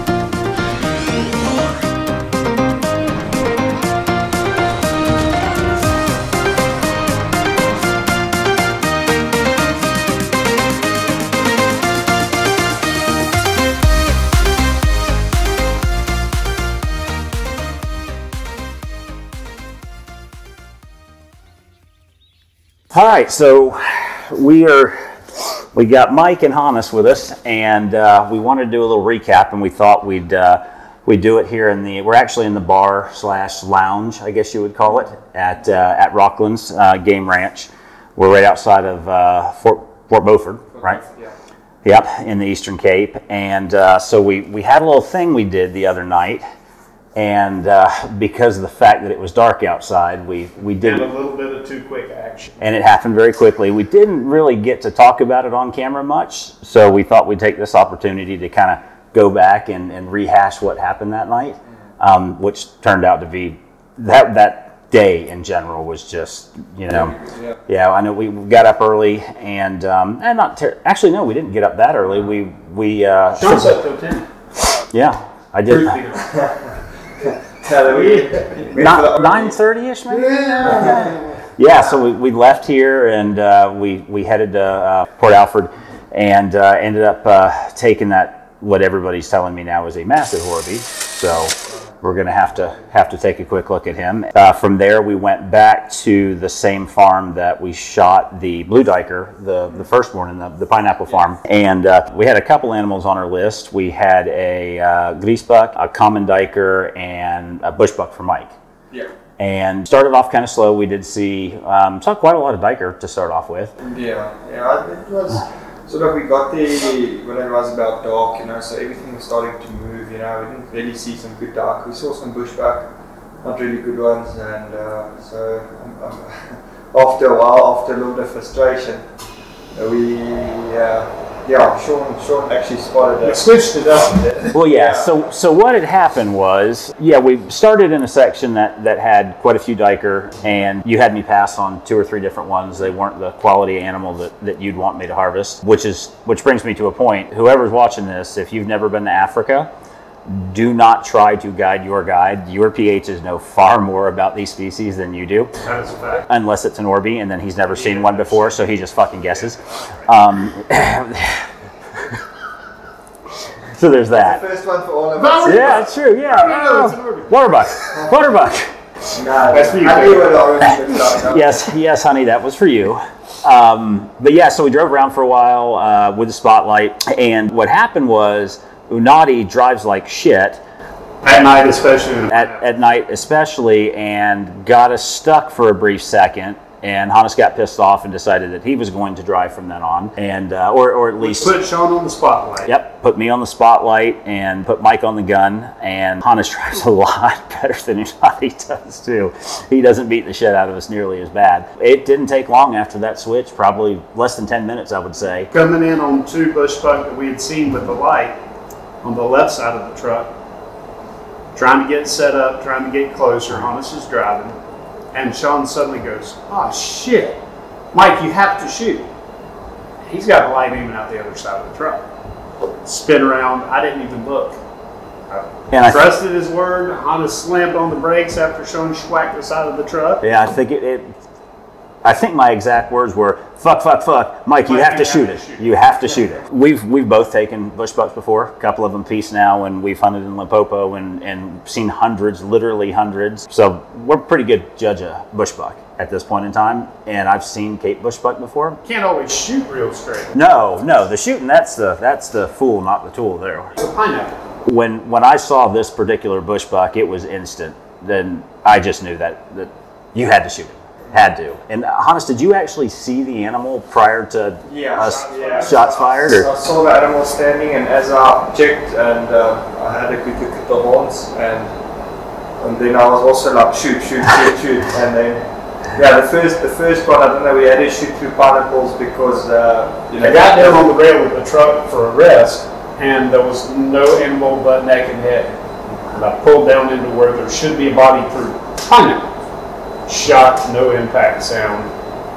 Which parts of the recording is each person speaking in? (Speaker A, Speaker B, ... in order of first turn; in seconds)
Speaker A: 22.9-25.0, 25.7-41.0, 41.8-46.4, 47.1-51.1, 52.6-67.1, 67.7-73.8, 74.9-76.0, 78.7-108.5, 109.4-113.8, 134.5-149.7, 150.2-155.5, 156.2-162.2, 163.6-164.4, 165.4-168.7, 170.7-180.6, 182.3-191.5, 192.6-205.5, 225.7-226.1, 230.2-231.2, 232.0-248.8, 250.3-253.8, 254.7-266.5
Speaker B: 40.7-41.3, 66.9-67.6, 76.1-79.6, 80.4-81.2, 91.5-92.0, 113.8-122.9, 123.4-129.0, 129.7-133.4, 134.7-135.2, 164.1-166.0, 167.9-168.4, 169.1-171.6, 264.6-271.8, 272.6-280.9
Speaker C: 50.8-52.6, 73.3-74.3, 75.7-76.4, 77.8-78.5, 80.5-81.0, 133.2-134.6, 155.6-156.2, 157.6-159.5, 165.2-167.6, 169.4-170.5, 181.2-182.6, 191.2-192.7, 205.5-208.4, 209.0-210.3, 211.5-214.6, 215.1-217.4, 217.9-219.1, 220.0-222.0, 222.8-224.6, 225.3-230.2, 234.7-236.4, 248.8-250.3, 253.8-254.4, 264.9-266.3, 280.2-285.6, 286.1-289.3, 290.1-291.9